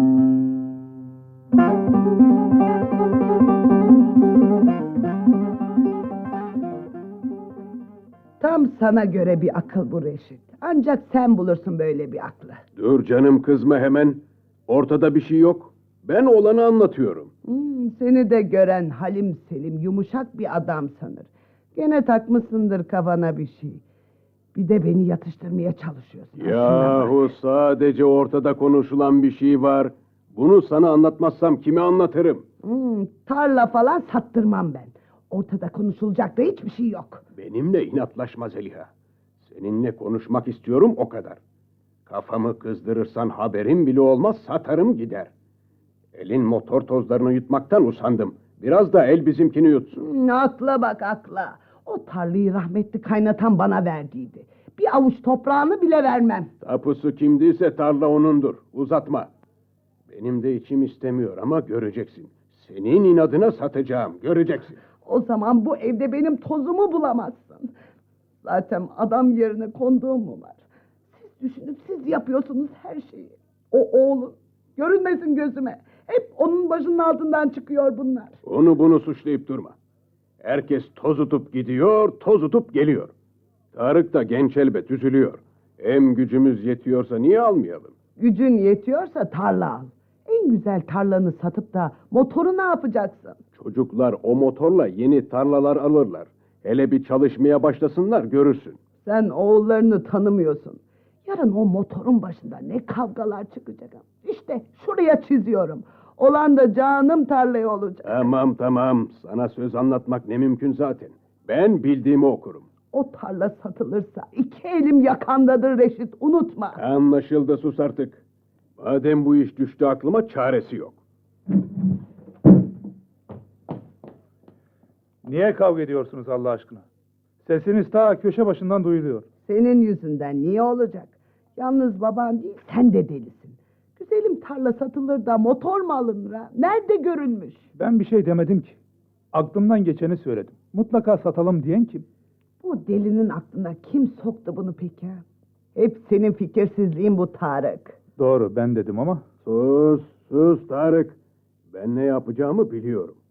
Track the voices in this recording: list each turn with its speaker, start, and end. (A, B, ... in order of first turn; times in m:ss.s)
0:08.4-0:12.6 A
0:12.8-0:17.3 B
0:17.4-0:23.8 A
0:24.5-0:27.2 A
0:26.4-0:32.4 B
0:32.6-0:37.2 A
0:37.4-0:38.9 B
0:39.4-0:41.4 B
0:42.1-0:45.3 B
0:46.1-0:50.0 B
0:50.0-0:56.5 A
0:56.6-0:59.3 B
1:00.1-1:04.8 B
1:05.0-1:07.7 A
1:08.4-1:10.6 A
1:11.1-1:18.4 A
1:18.4-1:19.7 B
1:20.4-1:23.1 B
1:23.7-1:27.9 B
1:28.2-1:33.4 A
1:33.6-1:38.8 B
1:39.0-1:48.3 A
1:48.0-1:52.7 B
1:52.9-1:56.8 A
1:56.8-1:58.2 B
1:58.8-2:01.0 B
2:05.2-2:06.8 C
2:07.4-2:09.2 C
2:09.4-2:17.7 A
2:17.8-2:18.8 C
2:19.3-2:22.0 C
2:22.6-2:25.2 A
2:25.8-2:28.0 A
2:28.2-2:29.2 C
2:29.4-2:31.2 B
2:31.7-2:33.2 B